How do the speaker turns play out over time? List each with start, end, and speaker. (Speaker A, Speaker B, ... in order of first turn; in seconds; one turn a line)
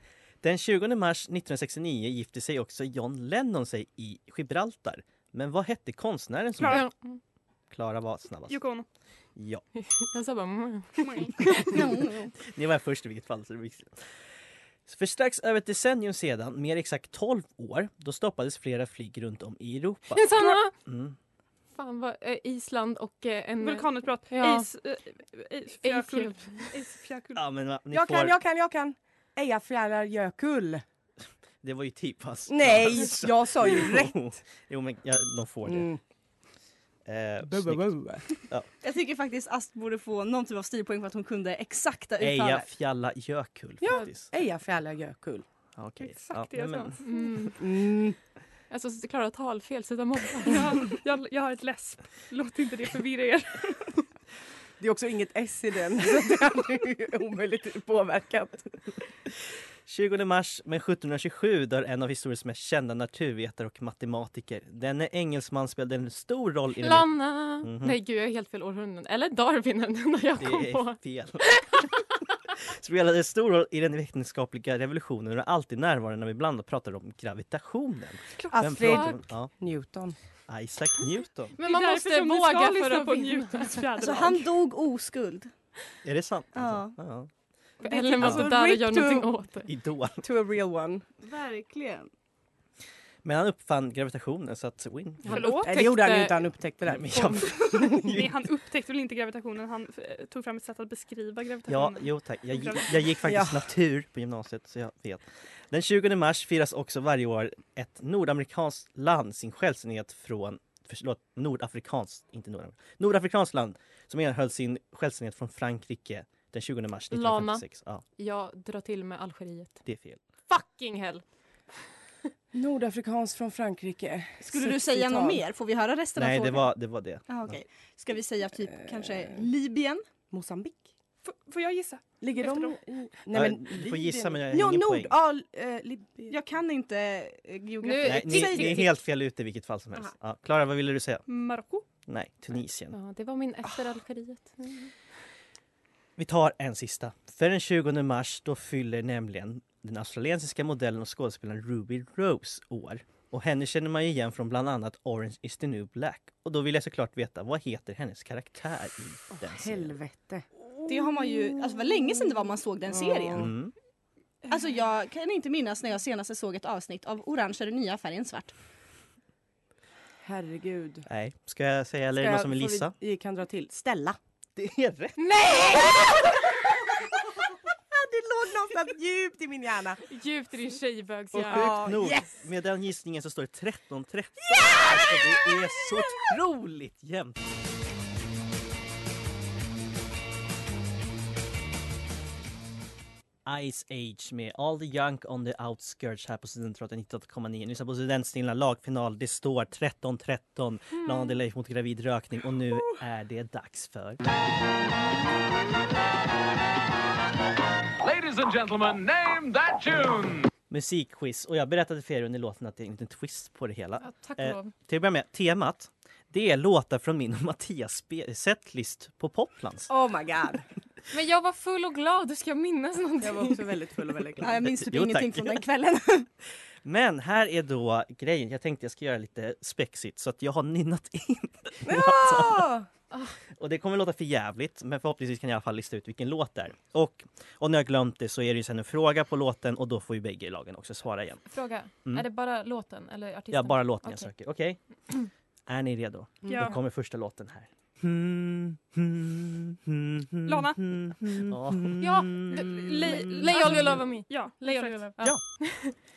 Speaker A: 0.4-6.9
Speaker B: 6.6-7.2
Speaker A: 7.7-8.6
Speaker C: 8.5-8.9
Speaker A: 9.4-9.6
Speaker B: 9.8-11.8
Speaker C: 11.0-11.3
Speaker D: 11.7-12.3
Speaker A: 12.4-14.1
Speaker A: 14.9-21.2
Speaker B: 20.1-20.7
Speaker B: 21.8-24.7
Speaker C: 23.6-27.4
Speaker B: 25.8-26.7
Speaker A: 27.4-28.4
Speaker E: 27.9-30.8
Speaker A: 31.6-35.9
Speaker E: 32.5-34.3
Speaker E: 35.7-36.0
Speaker A: 37.1-38.0
Speaker E: 37.5-38.3
Speaker D: 38.8-42.7
Speaker A: 42.2-44.3
Speaker E: 43.9-45.5
Speaker A: 45.8-47.0
Speaker C: 46.0-47.2
Speaker B: 47.0-47.6
Speaker E: 47.6-48.2
Speaker B: 48.7-50.8
Speaker C: 50.5-54.0
Speaker E: 54.8-58.8
Speaker A: 59.9-68.0
Speaker B: 66.8-71.9
Speaker A: 70.4-71.9
Speaker A: 72.5-79.5
Speaker E: 78.5-80.2
Speaker B: 78.9-79.2
Speaker A: 80.5-81.5
Speaker B: 81.6-83.8
Speaker C: 81.6-84.5
Speaker D: 84.0-85.5
Speaker A: 86.0-87.3
Speaker D: 86.5-87.0
Speaker E: 87.8-89.3
Speaker B: 87.8-89.7
Speaker A: 88.2-88.5
Speaker A: 89.7-90.2
Speaker E: 90.2-91.1
Speaker D: 91.2-92.1
Speaker A: 93.2-95.6
Speaker B: 95.3-96.4
Speaker E: 95.3-98.0
Speaker C: 95.3-95.7
Speaker A: 96.9-98.3
Speaker C: 97.5-103.2
Speaker A: 101.7-118.0
Speaker E: 103.3-103.6
Speaker B: 117.1-117.6
Speaker B: 118.2-119.8
Speaker A: 119.8-120.2
Speaker B: 120.5-121.2
Speaker E: 122.5-125.4
Speaker D: 124.5-126.7
Speaker A: 126.2-127.6
Speaker D: 127.3-130.1
Speaker E: 128.8-129.4
Speaker E: 130.3-130.9
Speaker C: 131.2-132.8
Speaker E: 132.2-136.4
Speaker A: 133.3-135.1
Speaker D: 136.3-138.8
Speaker B: 137.8-138.9
Speaker A: 138.0-141.2
Speaker C: 141.3-141.8
Speaker A: 142.1-143.0
Speaker B: 142.9-144.9
Speaker A: 146.2-160.0
Speaker E: 159.3-160.5
Speaker D: 160.9-163.5
Speaker E: 162.9-163.5
Speaker A: 163.4-163.7
Speaker D: 164.5-168.5
Speaker E: 170.2-171.1
Speaker A: 171.1-172.9
Speaker E: 172.2-174.2
Speaker A: 174.6-175.5
Speaker B: 175.2-176.1
Speaker E: 177.7-180.0
Speaker B: 180.1-181.9
Speaker A: 181.3-187.4
Speaker E: 181.3-182.3
Speaker E: 184.5-185.8
Speaker A: 193.5-204.2
Speaker F: 208.0-210.5
Speaker A: 210.7-219.9
Speaker B: 214.0-214.7
Speaker E: 219.9-220.7
Speaker B: 221.1-223.6
Speaker E: 223.2-224.6
Speaker D: 224.4-226.3
Speaker A: 224.6-225.6
Speaker A: 226.8-232.7
Speaker E: 231.8-232.9
Speaker A: 233.6-241.4
Speaker B: 241.5-244.3
Speaker A: 243.5-244.8
Speaker A: 245.7-253.5
Speaker C: 246.5-246.8
Speaker C: 250.4-251.4
Speaker B: 252.0-255.9
Speaker C: 252.5-255.1